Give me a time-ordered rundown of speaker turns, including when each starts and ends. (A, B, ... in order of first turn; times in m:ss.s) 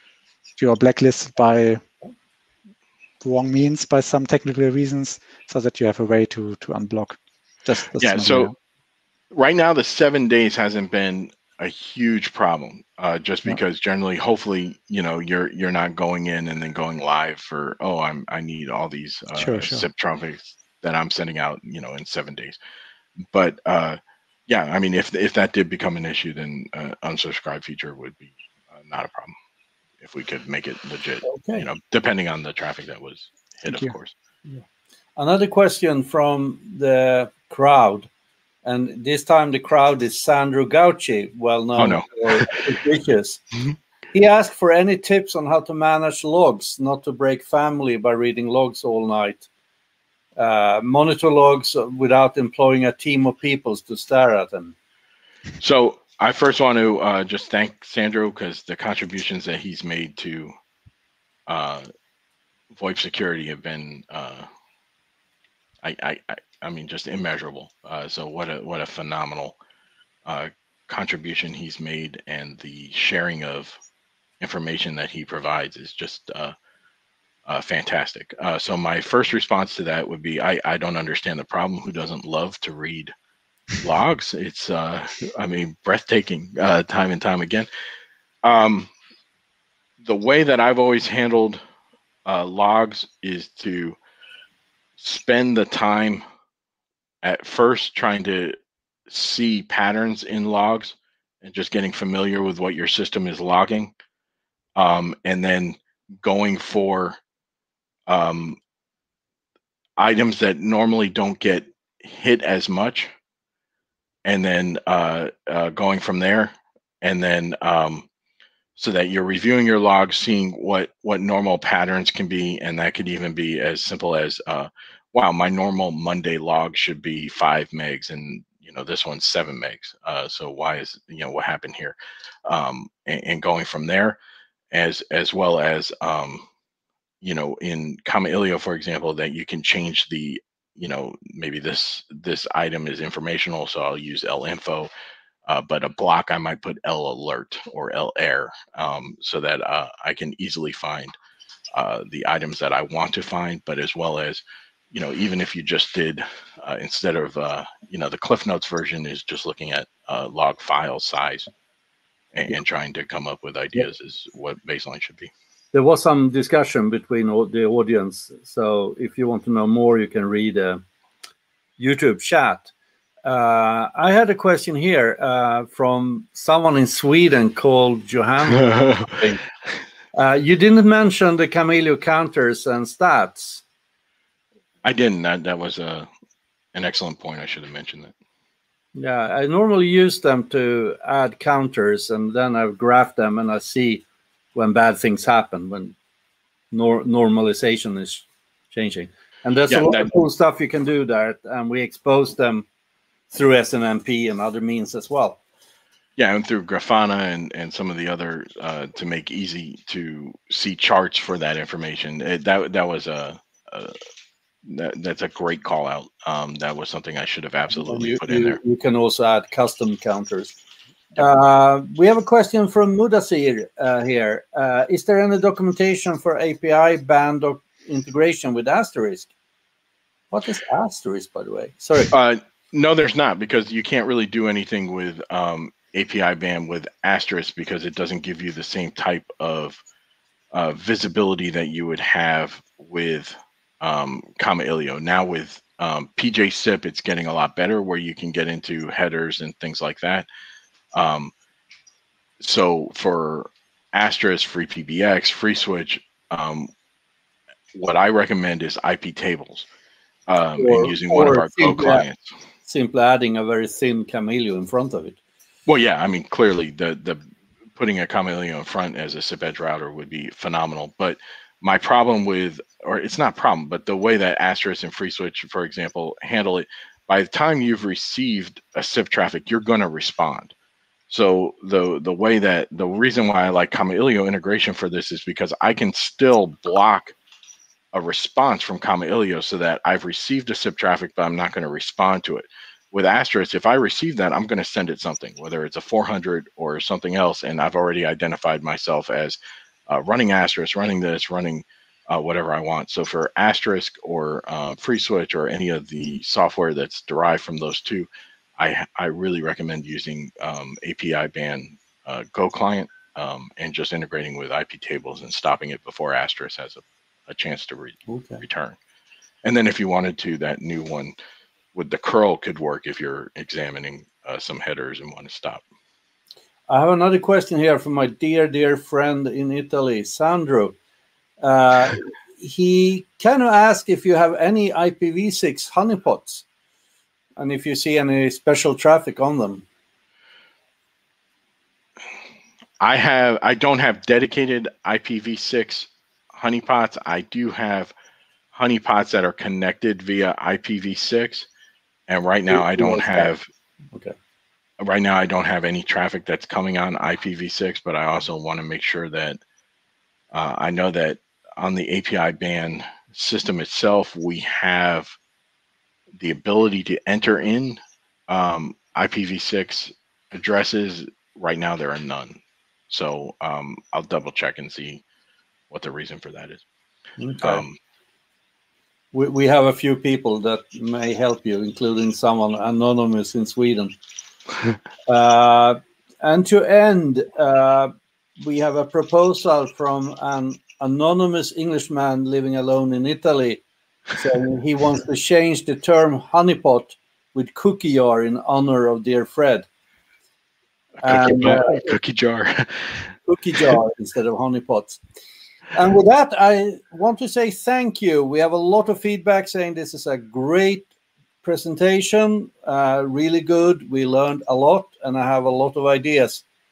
0:00.6-0:01.8 A
0:03.2-0:08.6 A
0:08.0-0:08.5 B
0:09.3-0:22.6 B
0:19.4-0:19.8 A
0:23.3-0:29.4 B
0:30.0-0:34.1 B
0:31.3-0:31.7 C
0:33.7-0:33.9 A
0:35.2-0:38.1 C
0:38.6-0:43.4 C
0:41.8-0:42.5 B
0:44.1-0:49.5 C
0:50.4-0:54.8 C
0:55.6-1:00.5 B
1:01.5-1:01.9 B
1:02.7-1:04.5 B
1:05.8-1:09.6 B
1:10.2-1:13.8 B
1:14.4-1:16.6 B
1:17.5-1:23.1 B
1:23.8-1:27.7 B
1:28.4-1:28.9 B
1:30.0-1:31.6 B
1:32.2-1:34.0 B
1:35.0-1:36.2 B
1:37.2-1:43.9 B
1:44.8-1:47.2 B
1:48.1-1:48.6 B
1:50.0-1:53.1 B
1:54.2-1:58.1 B
1:58.8-2:14.2 B
2:14.7-2:16.5 B
2:17.2-2:24.9 B
2:25.5-2:31.2 B
2:31.8-2:41.5 B
2:42.3-2:45.3 B
2:45.7-2:50.8 C
2:51.8-2:52.7 C
2:53.2-2:59.4 C
3:00.1-3:03.6 C
3:04.8-3:06.1 B
3:06.7-3:08.1 B
3:09.0-3:16.0 C
3:16.7-3:22.7 C
3:19.7-3:20.2 B
3:23.3-3:25.4 C
3:26.2-3:33.9 B
3:34.6-3:38.6 B
3:37.7-3:40.6 C
3:41.2-3:49.3 C
3:50.3-3:52.1 C
3:52.1-3:59.8 B
4:00.5-4:10.3 B
4:10.9-4:11.3 B
4:12.4-4:16.7 B
4:17.7-4:19.7 B
4:20.3-4:22.3 B
4:20.6-4:22.1 C
4:22.7-4:25.2 C
4:25.7-4:27.2 B
4:27.8-4:40.5 B
4:41.1-4:47.2 B
4:47.9-5:18.8 B
5:18.1-5:18.4 C
5:19.4-5:21.1 B
5:21.7-5:25.6 B
5:26.7-5:30.8 C
5:31.4-5:36.4 C
5:37.4-5:39.6 C
5:42.8-5:47.9 B
5:48.5-5:51.5 B
5:52.1-5:53.5 B
5:52.5-5:53.3 C
5:54.8-5:59.4 B
6:00.3-6:05.2 B
6:06.2-6:12.4 B
6:12.9-6:15.0 B
6:15.7-6:16.6 B
6:17.2-6:17.6 C
6:17.4-6:17.8 B
6:19.1-6:24.0 C
6:25.1-6:33.6 C
6:34.1-6:39.7 C
6:41.0-6:43.1 B
6:41.0-6:42.0 C
6:43.3-6:45.0 C
6:45.7-6:50.9 C
6:51.4-6:56.4 C